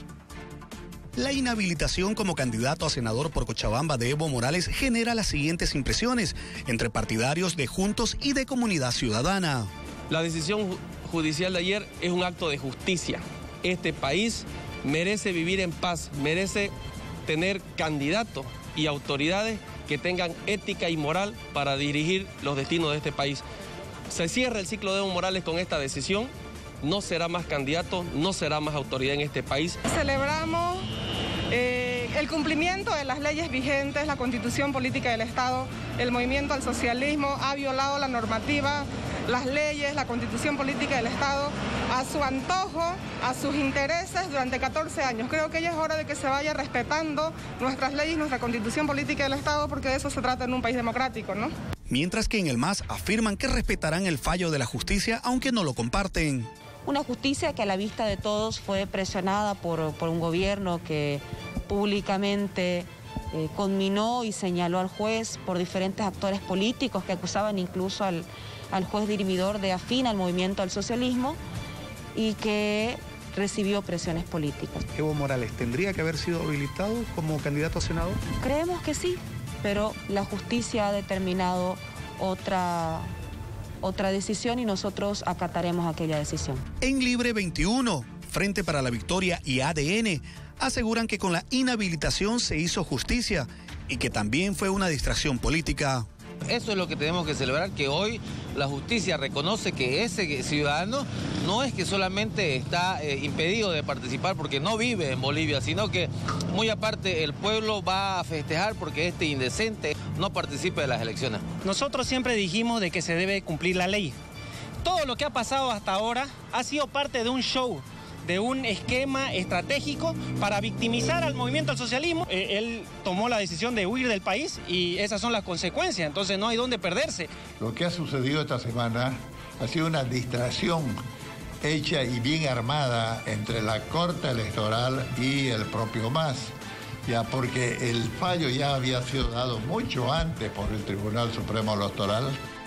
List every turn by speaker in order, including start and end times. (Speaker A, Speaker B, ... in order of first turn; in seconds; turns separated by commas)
Speaker A: 1.1-9.7, Speaker B: 10.1-16.7, Speaker B: 17.2-23.4, Speaker B: 24.1-26.3, Speaker B: 26.8-29.8, Speaker C: 29.9-30.9, Speaker C: 31.5-51.5, Speaker A: 51.9-56.5, Speaker D: 56.8-71.4, Speaker D: 72.1-74.8, Speaker A: 74.9-78.2, Speaker D: 78.4-83.1, Speaker D: 83.8-86.6, Speaker A: 86.8-96.0, Speaker E: 96.4-111.4, Speaker F: 111.6-114.1, Speaker F: 114.8-127.3, Speaker G: 127.6-131.0, Speaker G: 131.6-136.5, Speaker G: 137.1-142.4